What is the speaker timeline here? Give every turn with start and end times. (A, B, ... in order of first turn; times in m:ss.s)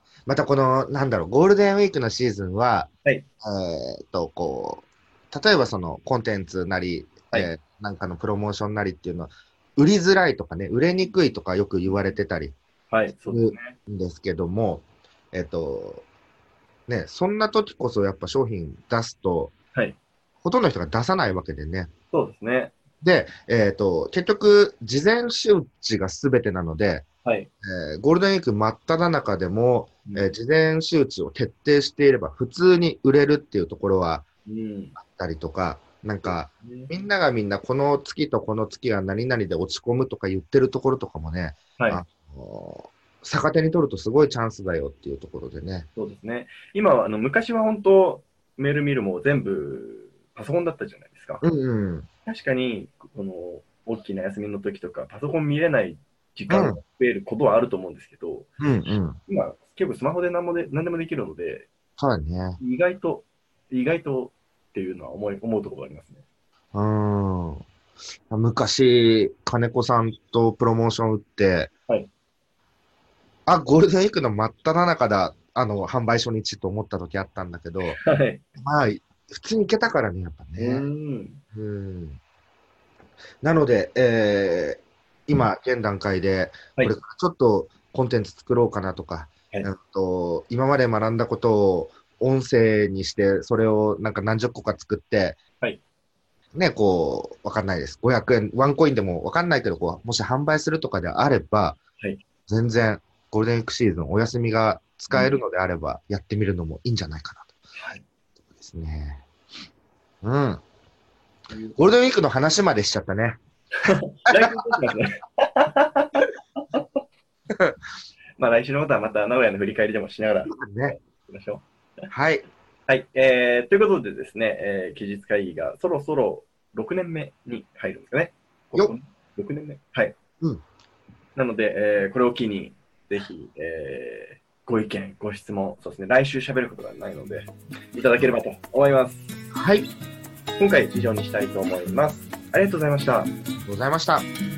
0:00.2-0:02.9 A
0:03.4-0:12.6 A
0:11.8-0:12.1 B
0:12.9-0:13.8 B
0:13.2-0:16.0 A
0:16.9-0:19.5 A
0:20.4-0:21.9 A
0:22.1-0:22.8 B
0:23.0-0:27.1 A
0:27.2-0:27.5 B
0:27.6-0:34.2 A
0:34.5-0:35.0 B
0:35.0-0:45.9 A
0:36.6-0:36.9 B
0:41.8-0:42.0 B
0:46.0-0:51.4 B
0:51.4-0:52.1 A
0:52.2-1:01.7 B
0:56.5-0:56.8 A
0:58.6-0:59.2 A
1:02.0-1:02.6 A
1:02.6-1:06.2 B
1:06.7-1:07.6 A
1:08.3-1:11.7 A
1:13.5-1:18.0 A
1:17.9-1:18.4 B
1:18.6-1:20.9 A
1:20.6-1:21.4 B
1:21.5-1:22.2 A
1:23.4-1:35.4 A
1:36.6-1:41.8 A
1:42.5-1:47.5 A
1:45.1-1:45.4 B
1:47.8-1:48.0 B
1:48.6-1:49.2 A
1:50.2-1:50.6 A
1:51.5-1:51.9 B
1:51.8-1:53.4 A
1:53.8-1:57.0 B
1:58.4-2:01.6 B
2:00.5-2:01.0 A
2:02.1-2:02.5 A
2:02.9-2:10.2 B
2:11.4-2:19.3 B
2:19.5-2:19.9 A
2:20.6-2:23.3 B
2:23.7-2:24.2 A